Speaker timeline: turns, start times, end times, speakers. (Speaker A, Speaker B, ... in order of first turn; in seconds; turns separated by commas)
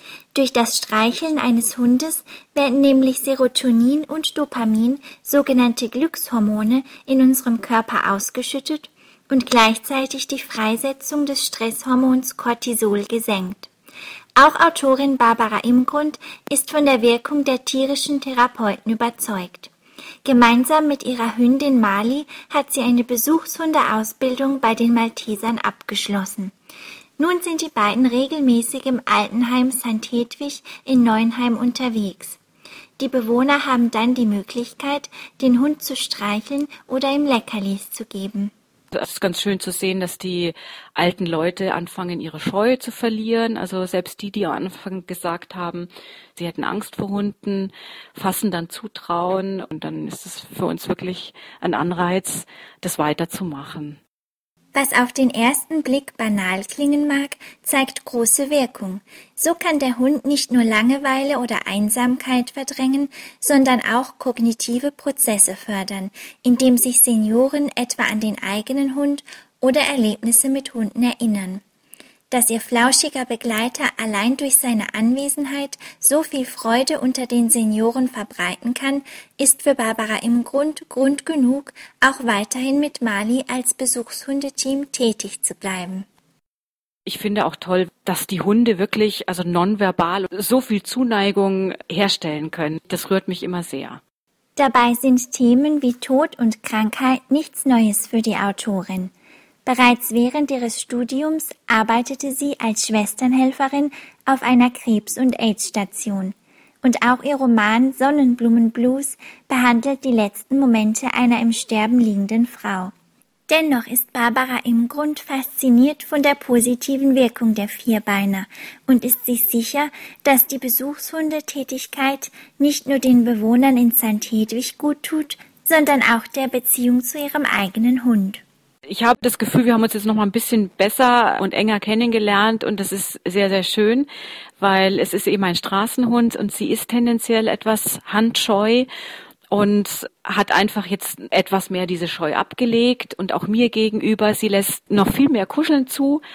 Speaker A: 0.3-13.7, Speaker A: 14.4-19.7, Speaker A: 20.2-26.5, Speaker A: 27.2-32.4, Speaker A: 33.0-38.5, Speaker B: 38.9-54.0, Speaker A: 54.7-71.6, Speaker A: 72.3-86.1, Speaker B: 87.0-94.0, Speaker A: 94.6-99.1, Speaker A: 99.7-112.9, Speaker A: 113.5-128.4, Speaker B: 128.9-134.1, Speaker B: 134.6-138.9, Speaker B: 139.5-146.2